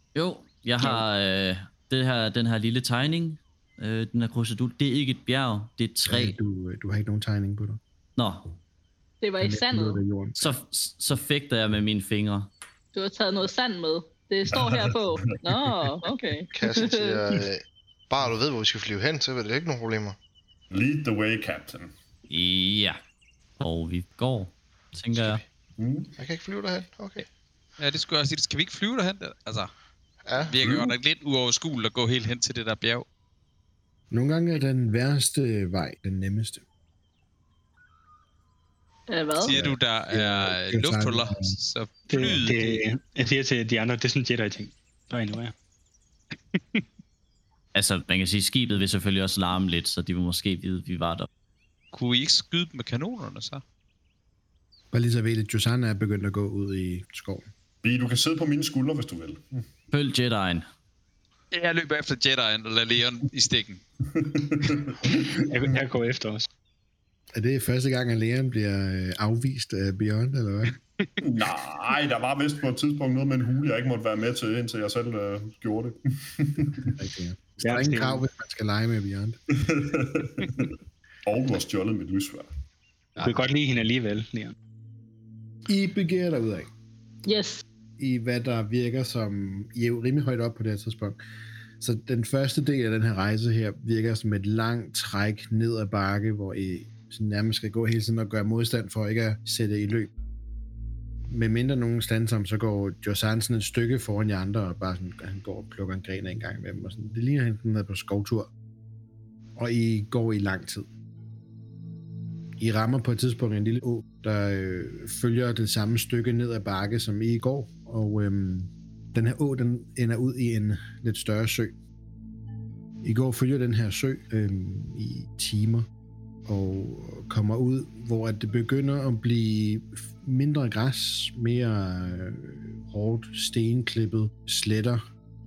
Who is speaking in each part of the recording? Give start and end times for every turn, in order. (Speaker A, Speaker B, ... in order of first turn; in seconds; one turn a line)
Speaker A: 0.1-6.4
Speaker B: 6.0-7.8
Speaker A: 8.2-8.5
Speaker C: 9.2-10.0
Speaker B: 9.4-10.5
Speaker A: 10.4-12.5
Speaker C: 12.9-17.2
Speaker D: 14.5-15.4
Speaker E: 16.5-20.2
Speaker D: 20.7-21.9
Speaker A: 22.3-23.0
Speaker A: 23.6-25.4
Speaker E: 25.1-25.4
Speaker D: 25.8-26.1
Speaker E: 26.2-27.3
Speaker F: 27.8-29.7
Speaker E: 30.2-30.8
Speaker F: 30.5-33.0
Speaker B: 34.1-36.6
Speaker C: 39.1-39.5
Speaker F: 39.4-42.8
Speaker B: 39.5-41.5
Speaker G: 42.1-45.5
Speaker F: 46.5-46.8
Speaker A: 47.7-51.3
Speaker F: 51.9-53.6
Speaker B: 54.9-57.5
Speaker D: 57.8-59.6
Speaker A: 59.9-60.6
Speaker F: 61.5-63.8
Speaker D: 64.1-65.4
Speaker G: 65.4-66.5
Speaker B: 67.3-70.7
Speaker D: 71.2-76.9
Speaker B: 76.9-79.4
Speaker G: 77.6-78.2
Speaker D: 79.5-80.7
Speaker D: 81.2-82.5
Speaker G: 83.2-84.5
Speaker B: 85.7-86.7
Speaker C: 87.2-87.6
Speaker B: 88.0-91.2
Speaker B: 91.8-100.1
Speaker B: 101.3-108.5
Speaker B: 109.6-110.9
Speaker B: 112.6-121.7
Speaker B: 123.0-125.9
Speaker B: 126.5-135.0